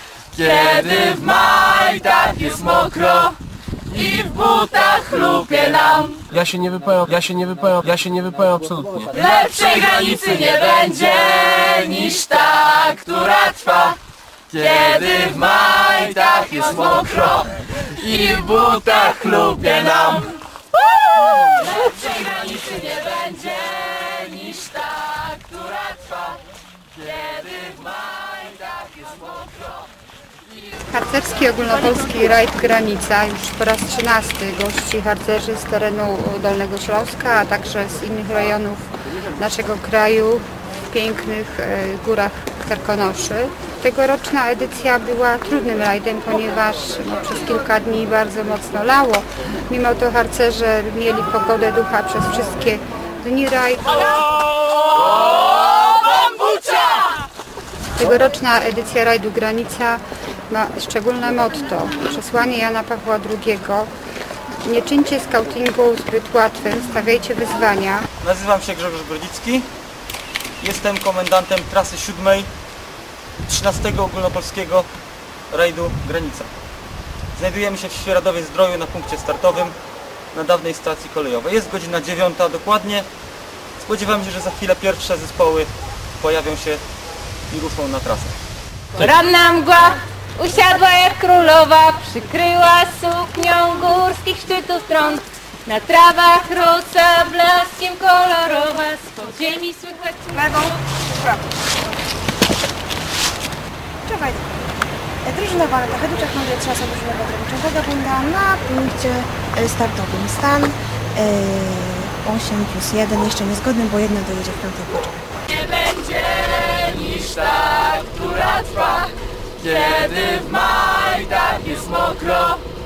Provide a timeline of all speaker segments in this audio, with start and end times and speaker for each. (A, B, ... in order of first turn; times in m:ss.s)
0:00.3-0:03.3 A
0:03.9-0:06.1 A
0:06.3-0:09.1 B
0:09.2-0:14.0 A
0:14.5-0:20.4 A
0:21.3-0:26.3 A
0:27.0-0:29.6 A
0:30.9-0:54.2 C
0:58.0-1:03.9 C
1:04.6-1:08.1 C
1:08.2-1:09.7 D
1:10.6-1:12.5 D
1:13.5-1:14.9 D
1:15.5-1:16.5 D
1:17.4-1:19.8 D
1:20.3-1:23.1 D
1:23.8-1:26.8 D
1:27.5-1:28.3 D
1:29.0-1:40.3 E
1:40.3-1:41.4 F
1:44.1-1:44.5 F
1:45.2-1:55.1 F
1:55.6-1:59.0 A
1:59.6-2:02.6 A